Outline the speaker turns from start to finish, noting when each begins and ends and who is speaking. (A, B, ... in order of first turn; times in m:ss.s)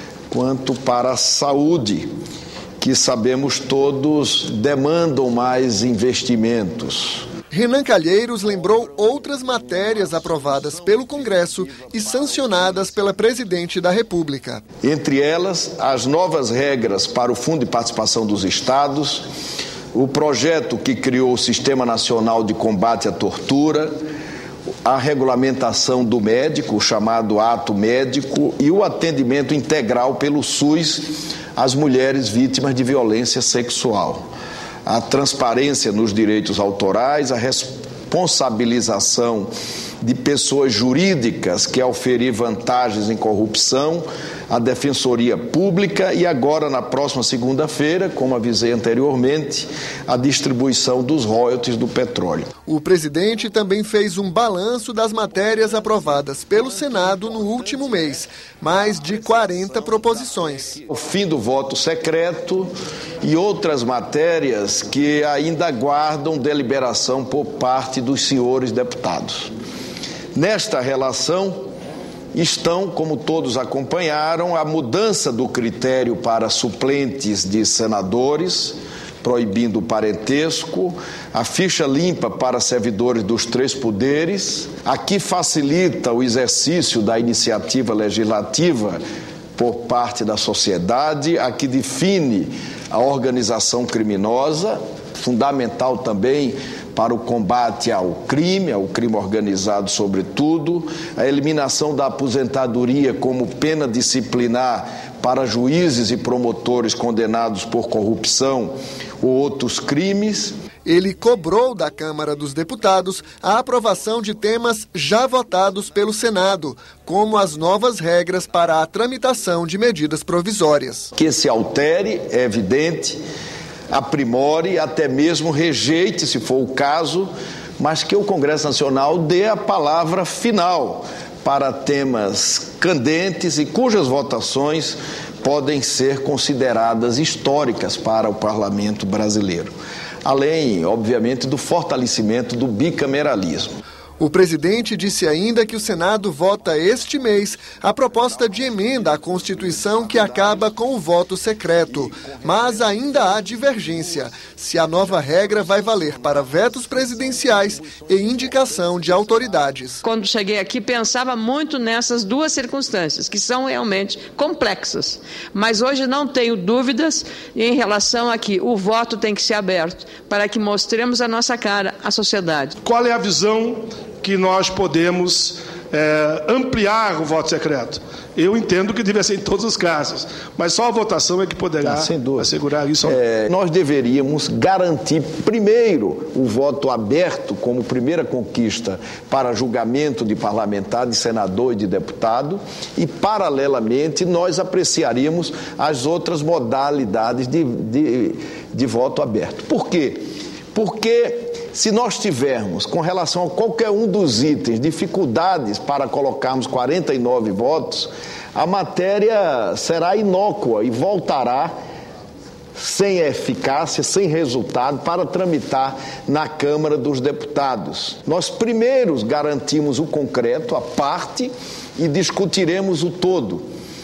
0:00.3-0:02.1 A
0:02.8-0:07.3 A
0:07.5-0:14.6 B
0:14.8-0:19.2 A
0:19.9-0:23.9 A
0:24.8-0:34.2 A
0:34.9-0:39.5 A
0:40.0-0:52.5 A
0:52.7-1:00.8 B
1:00.9-1:02.7 A
1:03.2-1:09.5 A
1:10.4-1:11.6 A
1:12.3-1:29.0 A
1:29.6-1:50.5 A
1:50.9-2:01.1 B
2:01.2-2:03.2 A
2:03.9-2:19.7 A
2:20.2-2:23.8 A
2:24.2-2:40.0 B
2:40.0-2:52.8 C
2:52.8-3:03.2 D
3:01.8-3:02.5 A
3:03.0-3:20.2 A
3:20.7-3:31.7 A
3:32.8-3:43.6 A